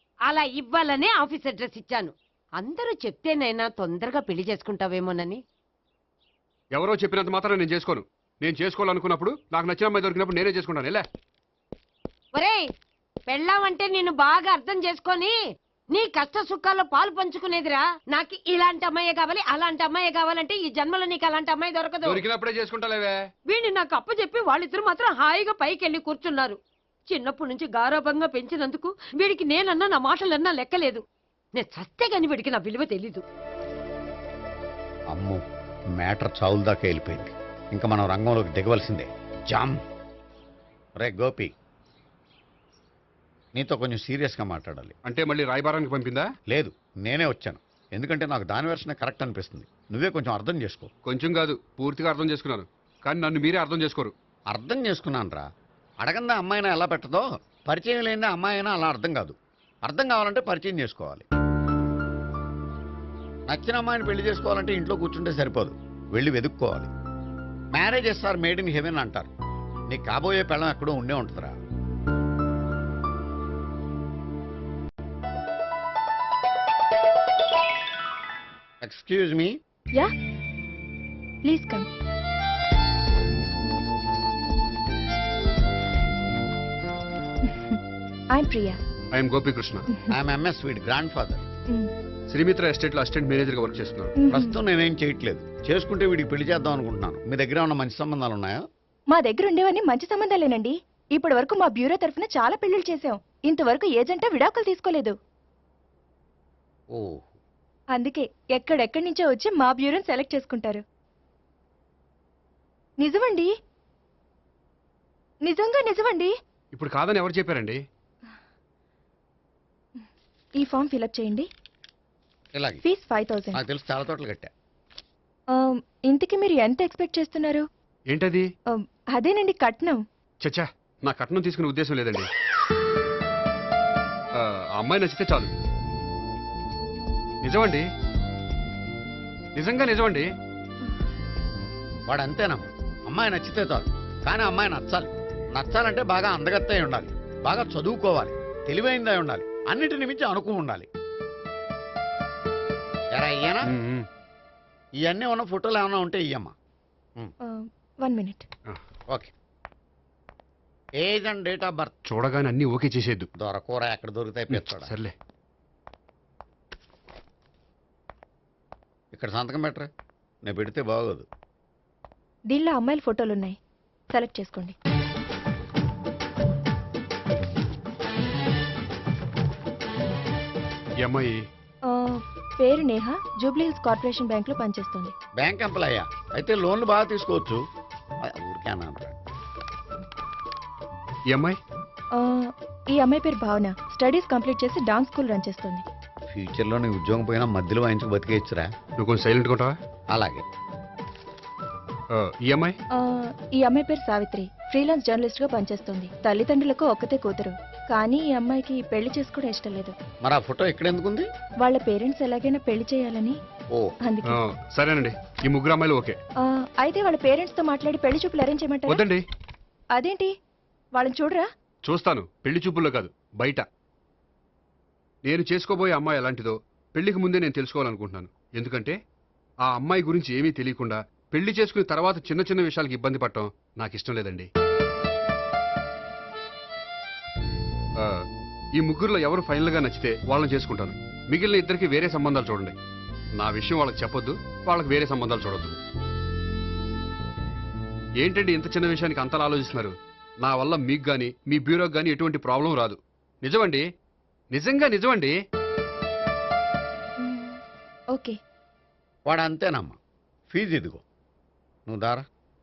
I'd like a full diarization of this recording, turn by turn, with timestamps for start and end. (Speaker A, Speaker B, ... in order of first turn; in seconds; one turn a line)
Speaker A: 0.3-5.4
Speaker B: 6.7-11.1
Speaker A: 12.3-12.6
Speaker A: 13.3-15.3
Speaker A: 15.9-22.2
Speaker B: 22.0-23.2
Speaker A: 23.5-26.6
Speaker A: 27.1-31.0
Speaker A: 31.6-33.2
Speaker C: 35.1-35.4
Speaker C: 36.0-39.8
Speaker C: 41.0-41.5
Speaker C: 43.6-44.9
Speaker B: 45.0-46.3
Speaker C: 46.5-50.9
Speaker B: 51.1-54.1
Speaker C: 54.5-55.5
Speaker C: 56.0-61.2
Speaker C: 63.5-66.9
Speaker C: 67.7-69.3
Speaker C: 69.9-71.6
Speaker C: 78.8-79.6
Speaker D: 81.5-81.9
Speaker D: 87.5-87.8
Speaker D: 88.3-88.8
Speaker B: 89.1-89.8
Speaker C: 90.1-91.4
Speaker B: 92.3-94.1
Speaker D: 94.2-94.6
Speaker C: 94.3-98.6
Speaker D: 99.1-105.2
Speaker C: 106.9-107.3
Speaker D: 107.9-110.8
Speaker D: 113.0-113.5
Speaker D: 115.5-116.3
Speaker B: 116.7-117.8
Speaker D: 120.6-121.5
Speaker C: 122.5-122.8
Speaker D: 122.8-123.6
Speaker C: 123.5-124.5
Speaker D: 125.6-127.7
Speaker B: 128.1-128.5
Speaker D: 129.2-130.0
Speaker B: 130.4-132.3
Speaker B: 134.4-135.5
Speaker B: 137.4-137.8
Speaker B: 139.6-140.3
Speaker C: 142.1-150.9
Speaker C: 153.1-153.7
Speaker B: 153.7-154.1
Speaker C: 155.0-156.5
Speaker D: 157.5-158.4
Speaker C: 161.0-161.9
Speaker B: 162.1-163.3
Speaker C: 163.4-164.9
Speaker B: 164.5-165.1
Speaker C: 169.1-169.9
Speaker C: 170.4-171.3
Speaker D: 172.5-173.6
Speaker D: 174.1-174.8
Speaker B: 181.0-181.4
Speaker D: 181.9-185.1
Speaker C: 185.4-187.6
Speaker C: 188.3-189.2
Speaker B: 191.3-191.6
Speaker D: 192.2-195.8
Speaker C: 196.3-198.7
Speaker B: 199.0-199.8
Speaker C: 200.1-200.4
Speaker B: 202.1-202.8
Speaker D: 203.6-209.9
Speaker C: 210.2-211.3
Speaker D: 211.6-213.4
Speaker D: 214.0-214.4
Speaker B: 214.3-216.2
Speaker D: 216.8-219.0
Speaker B: 218.9-219.2
Speaker D: 220.0-220.3
Speaker D: 221.0-221.5
Speaker B: 221.8-223.7
Speaker B: 225.2-229.0
Speaker B: 229.6-234.5
Speaker B: 238.0-238.2
Speaker B: 238.8-242.8
Speaker B: 243.4-245.8
Speaker B: 248.2-253.8
Speaker B: 254.5-255.4
Speaker D: 257.2-257.6
Speaker C: 259.3-260.0
Speaker C: 260.5-261.0
Speaker C: 261.9-262.2